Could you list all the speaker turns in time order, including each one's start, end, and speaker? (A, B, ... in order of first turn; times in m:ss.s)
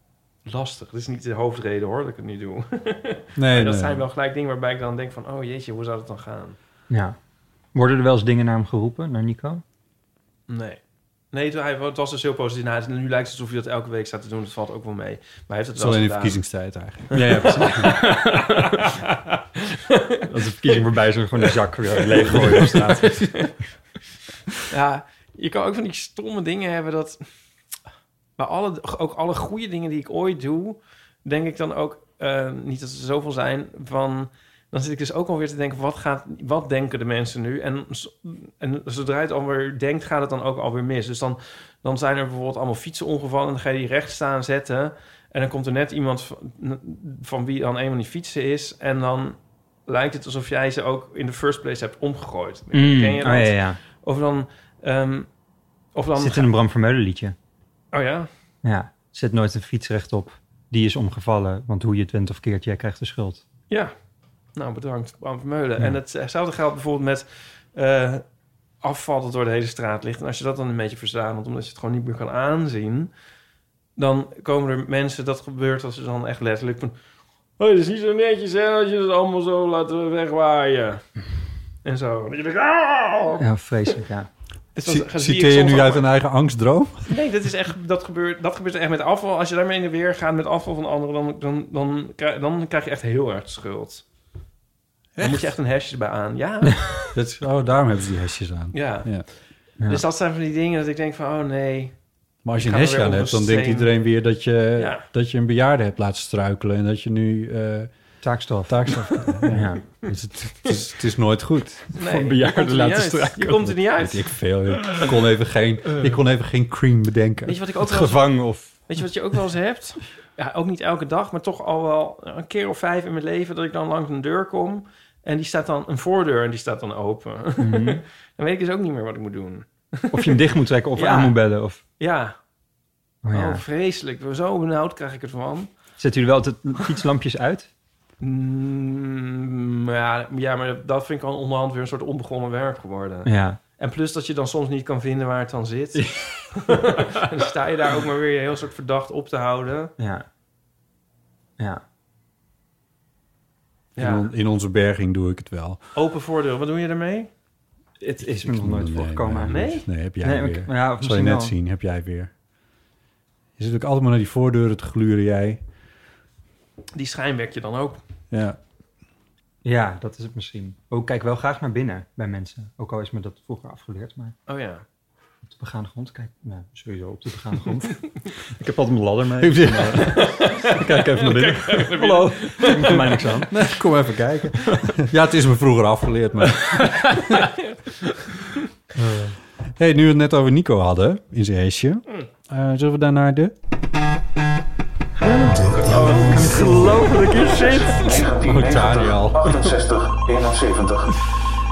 0:00.4-0:06.6 A
0:03.4-0:04.0 B
0:06.9-0:07.2 C
0:07.7-0:09.6 C
0:10.5-0:10.8 A
0:11.3-0:16.4 A
0:15.8-0:17.9 B
0:17.1-0:18.9 C
0:17.2-0:20.8 A
0:20.3-0:23.4 C
0:22.0-0:23.5 A
0:22.7-0:23.2 B
0:24.7-0:27.3 A
0:28.4-0:55.3 A
0:52.7-0:53.8 C
0:55.9-0:56.5 A
0:56.2-0:57.4 C
0:57.9-0:58.3 A
0:58.6-1:03.4 C
1:04.6-1:08.2 A
1:08.8-1:13.1 A
1:14.0-1:17.0 A
1:17.6-1:21.0 A
1:21.8-1:23.4 A
1:23.4-1:24.3 C
1:24.8-1:26.1 A
1:24.8-1:27.1 B
1:27.1-1:34.0 A
1:35.2-1:35.5 B
1:35.2-1:36.8 A
1:37.1-1:39.3 B
1:38.7-1:39.2 A
1:39.9-1:42.0 A
1:42.4-1:47.9 B
1:42.6-1:43.9 A
1:44.8-1:45.0 A
1:48.2-1:49.8 C
1:48.7-1:51.9 B
1:51.9-1:54.3 A
1:52.0-1:53.7 C
1:53.7-1:57.6 B
1:57.4-1:58.2 A
1:57.8-1:58.9 C
1:58.9-2:10.4 A
2:07.6-2:08.0 C
2:10.1-2:11.8 C
2:11.0-2:11.4 A
2:12.0-2:12.4 A
2:13.2-2:13.6 C
2:13.3-2:15.7 A
2:16.0-2:17.7 C
2:18.2-2:29.9 A
2:23.3-2:23.6 C
2:26.0-2:26.8 C
2:30.0-2:30.2 C
2:34.0-2:34.3 A
2:34.0-2:35.8 B
2:36.0-2:37.3 A
2:38.0-2:41.5 C
2:38.2-2:42.3 B
2:39.5-2:39.8 A
2:43.6-2:45.6 B
2:47.0-2:48.0 A
2:48.3-2:48.6 B
2:49.6-2:54.4 C
2:54.5-2:54.8 A
2:55.5-3:03.6 C
2:59.4-3:00.3 B
3:00.2-3:03.3 A
3:02.9-3:07.5 B
3:07.4-3:07.9 A
3:09.0-3:13.5 B
3:15.6-3:16.6 B
3:15.7-3:21.1 A
3:16.0-3:18.2 C
3:18.4-3:19.7 B